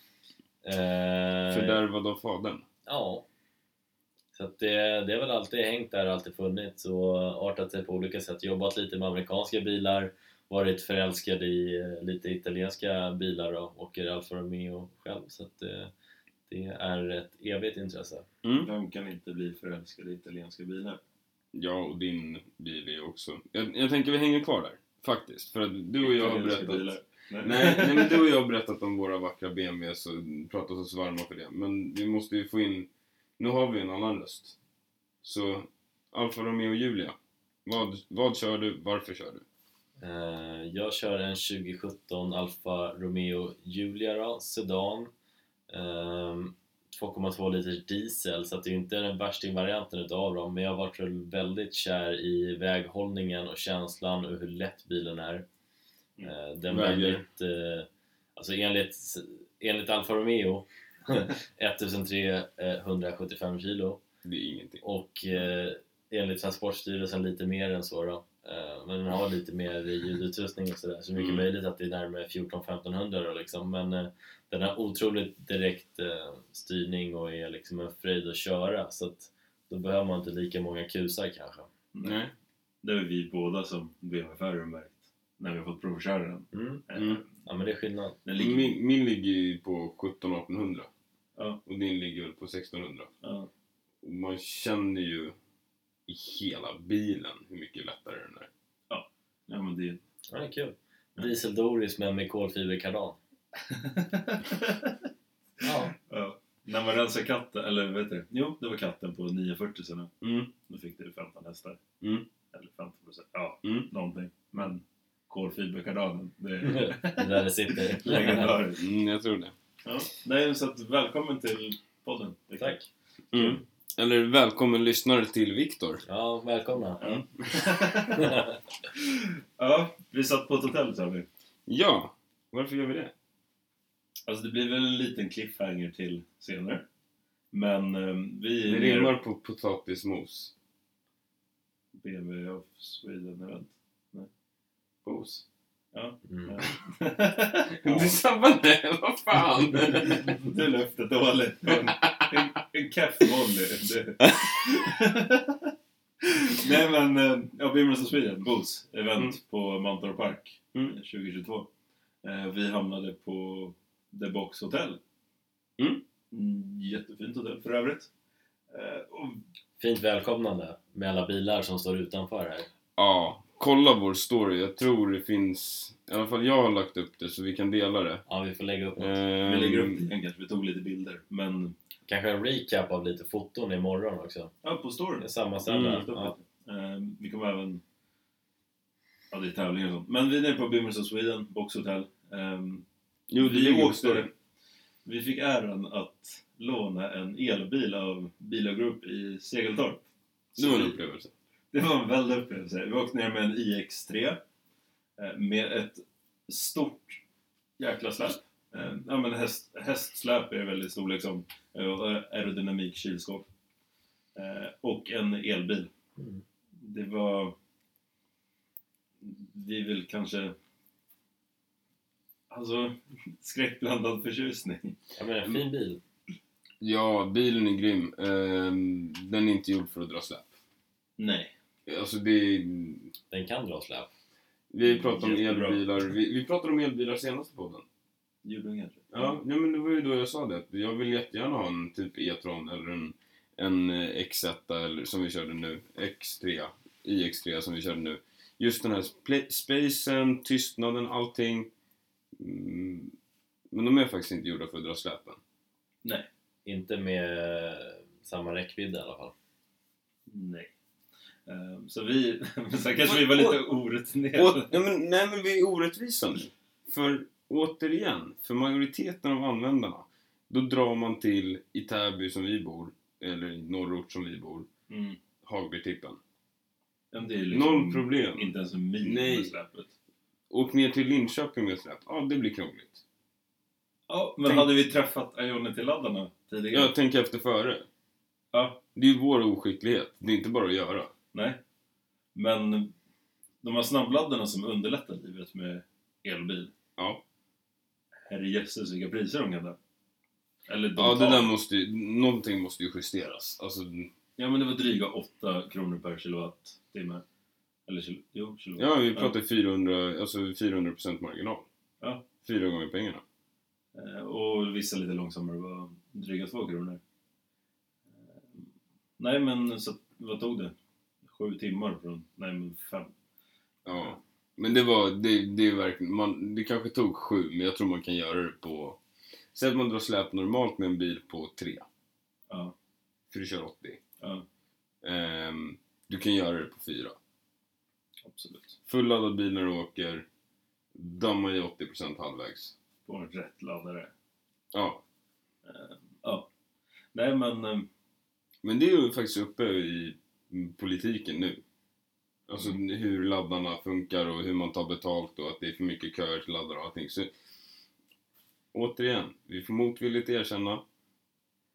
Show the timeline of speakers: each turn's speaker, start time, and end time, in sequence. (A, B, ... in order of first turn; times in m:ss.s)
0:00.6-0:01.8 A
0:01.5-0:02.6 B
0:02.9-0:03.3 A
0:04.3-0:15.9 A
0:16.5-0:18.3 A
0:18.4-0:18.7 B
0:18.6-0:21.0 C
0:21.5-0:32.9 B
0:26.0-0:28.2 C
0:33.4-0:34.6 B
0:35.2-0:39.4 B
0:40.0-0:45.1 A
0:45.7-0:55.5 A
0:56.2-1:04.0 A
0:56.7-0:57.2 B
1:04.2-1:04.8 B
1:04.8-1:21.7 A
1:11.2-1:11.5 B
1:21.9-1:22.2 C
1:22.0-1:22.3 B
1:22.8-1:27.3 C
1:26.5-1:26.8 A
1:27.0-1:27.2 B
1:27.4-1:28.2 A
1:28.2-1:28.8 C
1:28.4-1:30.9 B
1:31.7-1:33.1 B
1:33.2-1:33.5 C
1:34.0-1:35.4 B
1:36.1-1:38.5 B
1:38.9-1:40.0 C
1:40.3-1:43.2 A
1:43.6-1:45.1 C
1:45.6-1:45.9 A
1:45.6-1:50.1 C
1:50.2-1:50.5 B
1:50.6-1:51.8 C
1:52.0-1:52.3 B
1:52.5-1:58.8 C
1:53.6-1:53.9 B
1:56.6-1:58.6 A
1:58.8-1:59.5 B
1:59.8-2:03.6 C
2:02.6-2:02.8 A
2:03.3-2:06.0 B
2:06.1-2:07.0 A
2:07.0-2:08.3 C
2:08.1-2:08.6 A
2:09.0-2:11.3 C
2:11.7-2:13.1 B
2:14.3-2:16.8 C
2:17.5-2:19.1 C
2:18.6-2:20.5 B
2:22.0-2:24.3 C
2:25.0-2:25.4 B
2:25.9-2:28.2 C
2:26.3-2:26.5 A
2:27.7-2:30.3 B
2:30.0-2:41.7 C
2:31.7-2:32.5 B
2:42.2-2:45.0 C
2:45.8-2:46.0 B
2:46.3-2:48.1 C
2:48.7-2:49.4 C
2:49.8-2:52.7 A
2:53.0-2:58.2 B
2:58.3-2:59.2 A
2:59.0-3:00.0 B
2:59.4-3:01.8 C
3:02.1-3:04.5 A
3:04.6-3:07.8 C
3:05.2-3:06.3 A
3:05.7-3:06.1 B
3:09.3-3:12.9 C
3:13.3-3:14.3 B
3:13.4-3:14.3 C
3:15.0-3:21.0 C
3:20.6-3:21.3 B
3:21.7-3:24.4 C
3:25.2-3:27.2 C
3:27.8-3:33.5 C
3:34.4-3:35.9 C
3:36.2-3:36.4 A
3:36.8-3:37.6 C
3:39.2-3:40.6 C
3:42.5-3:45.0 C
3:45.2-3:46.0 A
3:46.8-3:50.6 B
3:51.2-3:51.5 C
3:51.9-3:53.1 B
3:53.3-3:54.1 A
3:54.7-3:57.8 B
3:54.8-3:56.0 C
3:58.4-3:59.4 C
3:59.1-4:11.7 B
4:12.4-4:13.1 B
4:13.7-4:15.4 B
4:16.6-4:19.3 A
4:20.3-4:20.7 C
4:21.5-4:24.8 C
4:23.0-4:23.6 B
4:24.4-4:34.7 B
4:34.9-4:35.2 C
4:35.4-4:36.2 B
4:37.1-4:39.9 C
4:37.5-4:38.5 B
4:39.0-4:39.6 B
4:40.5-4:43.0 B
4:44.1-4:46.9 C
4:46.7-4:47.9 B
4:48.5-4:48.8 C
4:49.0-4:51.1 B
4:51.3-4:51.6 C
4:52.4-4:52.9 C
4:53.6-4:56.7 C
4:57.0-4:57.2 B
4:58.3-4:59.8 C
5:00.7-5:01.5 C
5:01.0-5:04.1 B
5:04.4-5:07.2 C
5:07.9-5:09.3 C
5:08.8-5:11.7 B
5:12.4-5:13.2 B
5:13.9-5:17.0 C
5:18.1-5:23.1 C
5:23.9-5:29.0 B
5:29.5-5:31.9 B
5:32.5-5:32.8 C
5:33.3-5:34.0 B
5:34.2-5:34.5 C
5:35.0-5:37.2 B
5:38.2-5:38.8 C
5:38.9-5:40.3 B
5:41.0-5:42.7 B
5:43.1-5:44.1 C
5:44.7-5:45.0 B
5:45.7-5:46.5 C
5:47.1-5:47.9 C
5:48.6-5:51.6 B
5:52.5-5:57.3 B
5:58.7-6:00.8 B